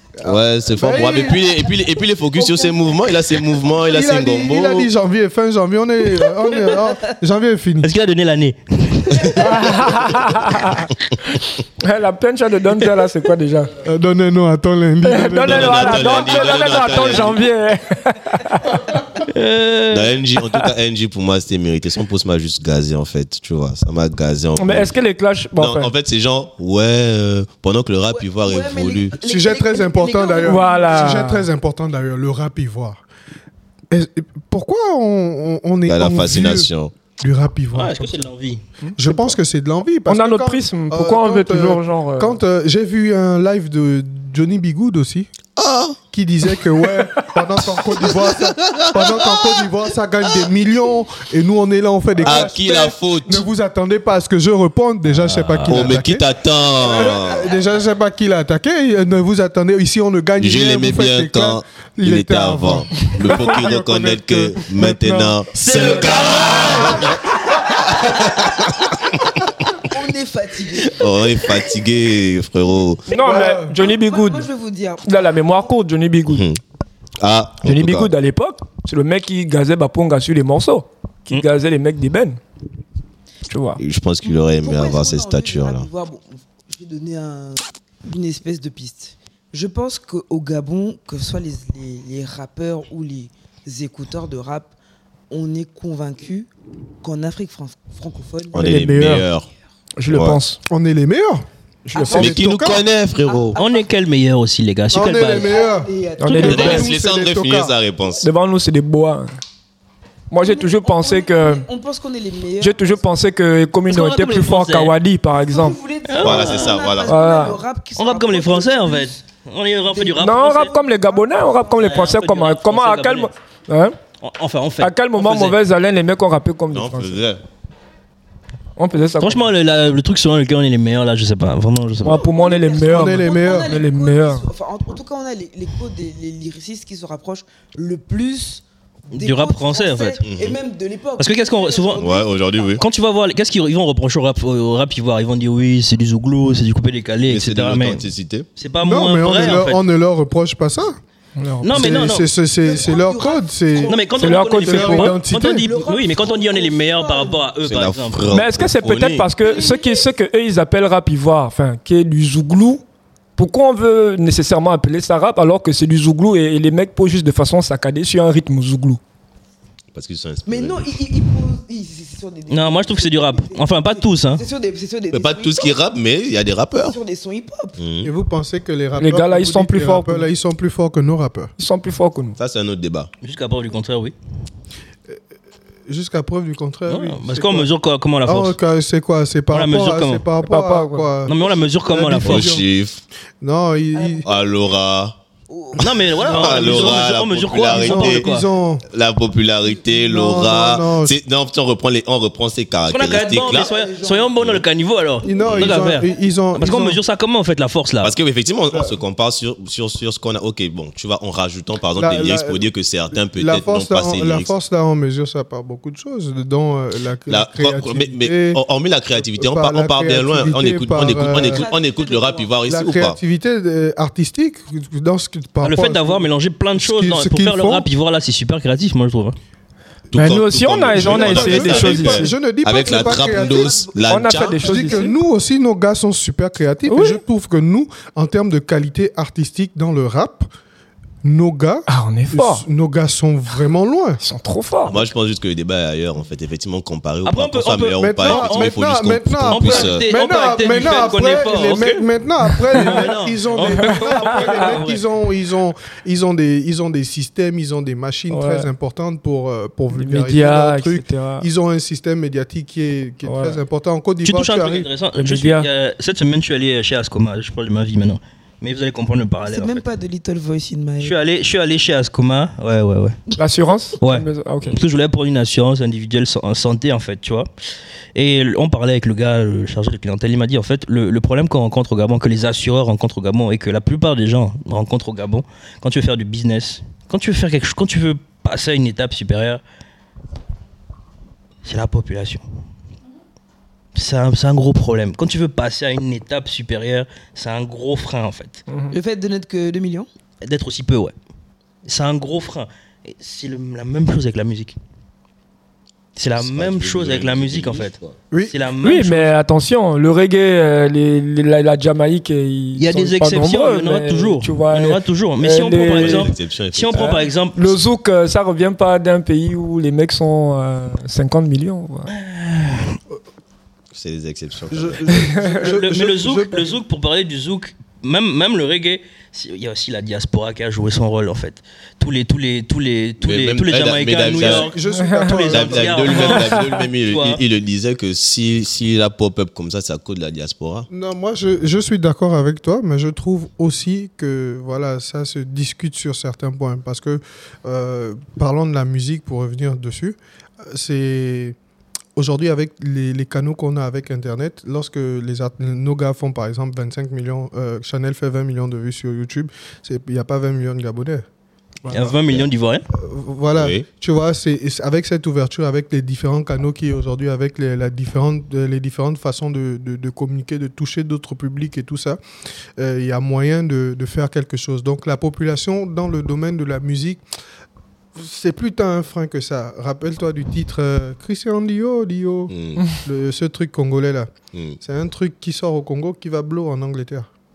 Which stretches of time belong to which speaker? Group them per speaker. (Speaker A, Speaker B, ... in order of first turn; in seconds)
Speaker A: 0.2-1.5, 3.8-7.9, 13.8-16.4, 29.2-33.0, 33.9-38.1, 39.0-45.3, 46.1-65.4, 66.6-67.1, 73.1-73.8, 100.7-101.5, 102.0-102.8, 104.9-107.7, 132.9-133.7, 148.8-151.0, 151.7-154.0, 154.6-155.7, 178.0-181.5, 185.9-187.7, 188.2-192.7, 193.4-194.2, 197.6-198.8, 199.8-201.2, 205.2-207.0, 208.7-209.0, 211.9-218.6, 219.3-221.7, 222.7-226.2, 226.8-227.9, 230.9-233.9, 234.6-240.5, 241.2-244.2, 247.9-264.9, 324.7-326.7, 334.3-336.1, 340.9-351.6, 352.1-361.2, 362.9-372.2, 372.8-377.2, 378.1-387.3
Speaker B: 0.2-4.9, 15.4-17.5, 19.9-24.9, 25.6-29.1, 35.9-36.9, 45.5-46.0, 47.9-49.6, 52.2-53.4, 55.2-57.5, 60.4-69.4, 70.9-73.1, 76.3-76.6, 77.2-78.1, 83.8-85.9, 98.5-99.5, 100.1-100.4, 102.1-103.6, 106.4-108.3, 116.2-117.1, 126.7-127.4, 140.2-140.6, 142.0-142.8, 147.3-148.5, 157.6-159.3, 169.9-171.0, 175.1-177.0, 177.8-178.1, 182.4-183.1, 192.2-193.0, 194.2-195.2, 196.3-198.3, 198.9-203.7, 204.4-204.6, 205.4-205.8, 208.0-214.5, 217.3-223.2, 230.1-234.8, 244.8-250.1, 306.4-308.1, 315.9-317.2, 323.9-325.0, 333.2-334.7, 335.5-340.9, 363.6-363.8, 382.5-382.8
Speaker C: 7.8-9.8, 19.2-20.1, 37.7-38.6, 55.6-55.9, 65.6-66.9, 103.5-105.5, 113.9-114.9, 116.1-116.8, 118.0-120.7, 121.7-123.3, 124.2-125.6, 129.2-132.2, 139.1-140.2, 141.2-142.0, 142.8-148.0, 148.6-149.8, 151.6-152.3, 153.8-158.3, 172.5-174.4, 183.2-184.1, 186.9-188.6, 189.5-190.2, 191.2-192.6, 195.8-198.5, 202.8-208.1, 225.6-229.3, 247.2-248.8, 249.5-252.0, 252.7-255.0, 264.2-269.8, 271.0-273.2, 274.0-277.5, 278.1-289.6, 291.6-292.4, 293.9-298.6, 300.4-301.1, 301.8-304.8, 306.1-308.0, 308.5-309.3, 312.8-317.6, 322.1-323.0, 325.5-337.4, 361.9-362.8
Speaker D: 9.4-13.7, 15.0-19.0, 24.6-25.9, 30.4-31.5, 40.1-42.4, 73.1-74.5, 75.0-76.5, 77.6-82.4, 83.5-83.8, 98.5-99.3, 100.0-100.6, 101.8-102.4, 106.2-106.9, 108.2-109.3, 110.3-111.7, 112.6-115.8, 117.0-117.6, 120.2-124.0, 124.8-127.2, 128.8-129.4, 132.0-134.4, 151.4-152.1, 154.2-155.2, 158.3-162.8, 163.4-169.0, 179.0-180.3, 181.6-182.4, 190.4-191.1, 230.1-232.3, 234.1-235.1, 236.9-237.2, 241.9-242.6, 244.2-245.0, 252.7-253.0, 253.6-254.7, 258.3-258.7, 259.9-261.5, 263.2-263.6, 265.1-265.7, 273.4-274.8, 308.8-316.3, 316.9-322.1, 325.2-325.6, 334.9-335.4, 336.2-336.7, 361.9-362.1
Speaker E: 28.1-31.3, 65.8-68.5, 69.8-71.6, 73.1-75.7, 84.2-94.7, 95.3-96.5, 97.0-98.9, 101.9-103.9, 105.0-106.9, 110.4-113.1, 115.4-119.2, 119.9-122.1, 132.0-142.8, 152.6-154.7, 155.4-157.4, 159.4-160.1, 170.4-175.8, 176.8-177.8, 193.9-194.2, 195.5-196.9, 203.2-204.3, 205.2-205.6, 221.2-222.6, 232.7-235.1, 269.4-271.1, 298.9-300.1